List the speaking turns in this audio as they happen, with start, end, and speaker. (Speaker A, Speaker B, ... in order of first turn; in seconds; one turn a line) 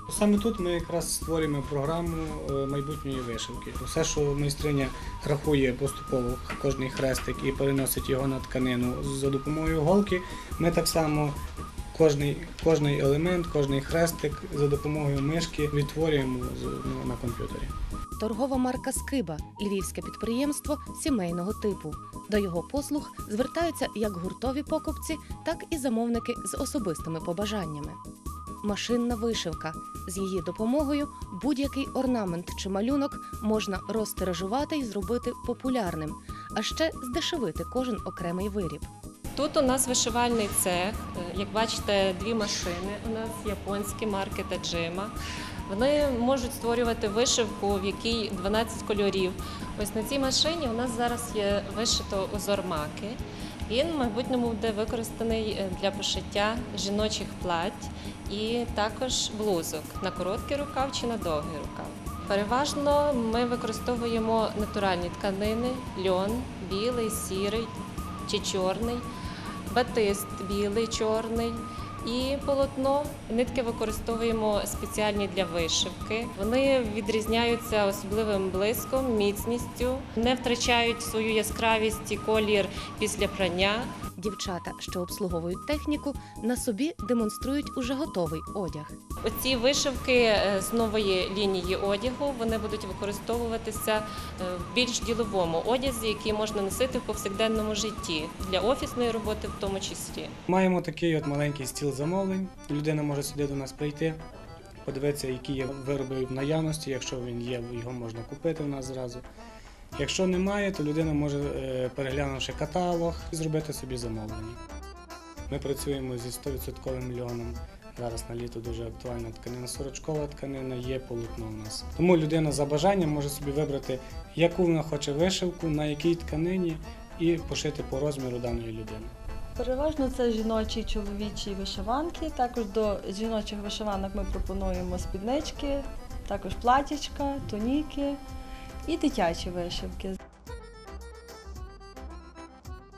Speaker A: 0.1-11.4
Speaker A: 11.9-17.7
Speaker B: 18.2-28.0
Speaker B: 28.6-38.9
Speaker C: 39.4-45.1
Speaker C: 45.7-67.7
Speaker C: 68.3-69.1
Speaker C: 69.7-83.9
Speaker B: 84.2-89.0
Speaker C: 89.2-100.3
Speaker A: 100.5-104.2
Speaker A: 104.8-109.2
Speaker A: 110.0-114.6
Speaker A: 115.5-129.1
Speaker D: 129.6-138.2
Speaker D: 138.9-140.2